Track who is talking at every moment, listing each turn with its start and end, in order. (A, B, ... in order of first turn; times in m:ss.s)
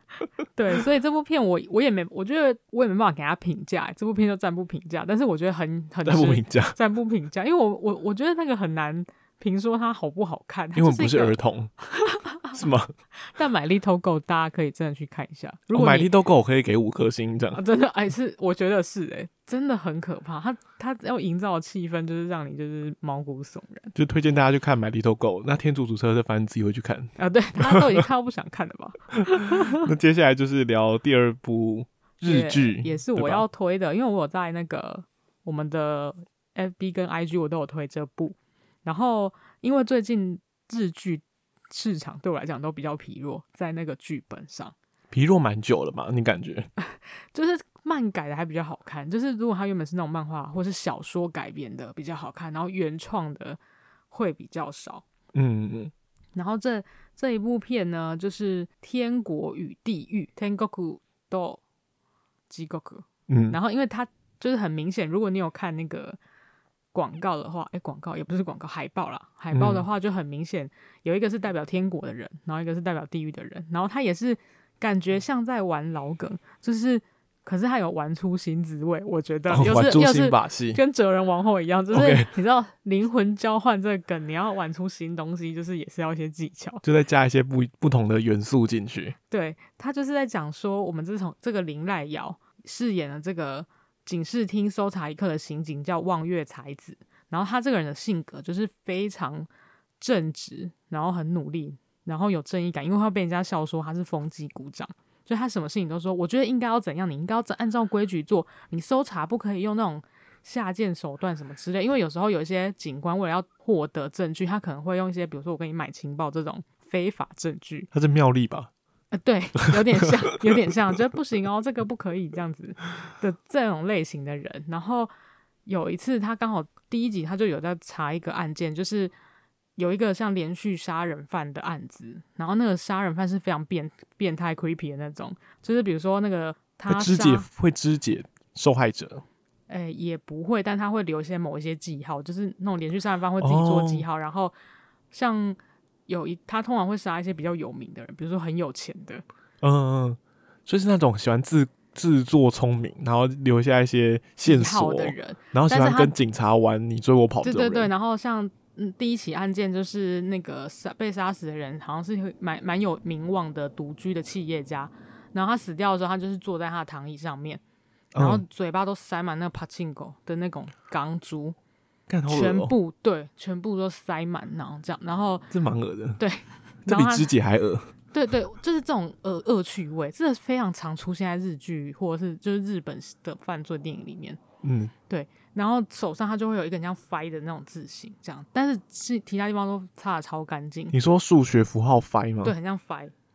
0:00.6-0:12.6 A
0:06.0-0:06.8 B
0:10.8-0:11.7 B
0:12.5-0:12.9 B
0:13.3-0:16.1 A
0:15.7-0:17.6 B
0:17.5-0:23.9 A
0:24.0-0:27.9 B
0:27.2-0:29.9 A
0:29.2-0:33.4 B
0:32.2-0:44.8 A
0:45.1-0:46.7 B
0:46.8-0:53.6 A
0:54.1-0:55.0 A
0:55.3-0:55.9 B
0:56.4-1:01.6 A
1:02.5-1:06.2 A
1:03.3-1:03.6 B
1:06.9-1:26.8 A
1:09.5-1:09.9 B
1:19.5-1:20.8 B
1:21.9-1:22.3 B
1:26.8-1:29.2 B
1:29.3-1:39.5 A
1:40.0-1:57.9 A
1:57.9-1:58.7 B
1:59.1-2:05.1 A
2:05.7-2:09.1 A
2:09.8-2:17.5 A
2:16.9-2:19.2 B
2:19.7-2:24.5 A
2:23.4-2:24.1 B
2:25.1-2:29.2 A
2:29.6-2:37.9 B
2:34.4-2:36.1 A
2:37.4-2:47.6 A
2:48.1-2:48.4 B
2:48.2-2:51.6 A
2:52.1-2:52.8 B
2:52.3-2:55.5 A
2:55.5-2:56.2 B
2:56.2-2:57.3 A
2:56.9-2:57.9 B
2:58.1-3:04.4 A
3:04.6-3:04.9 B
3:05.1-3:11.0 A
3:10.9-3:12.6 B
3:12.4-3:13.1 A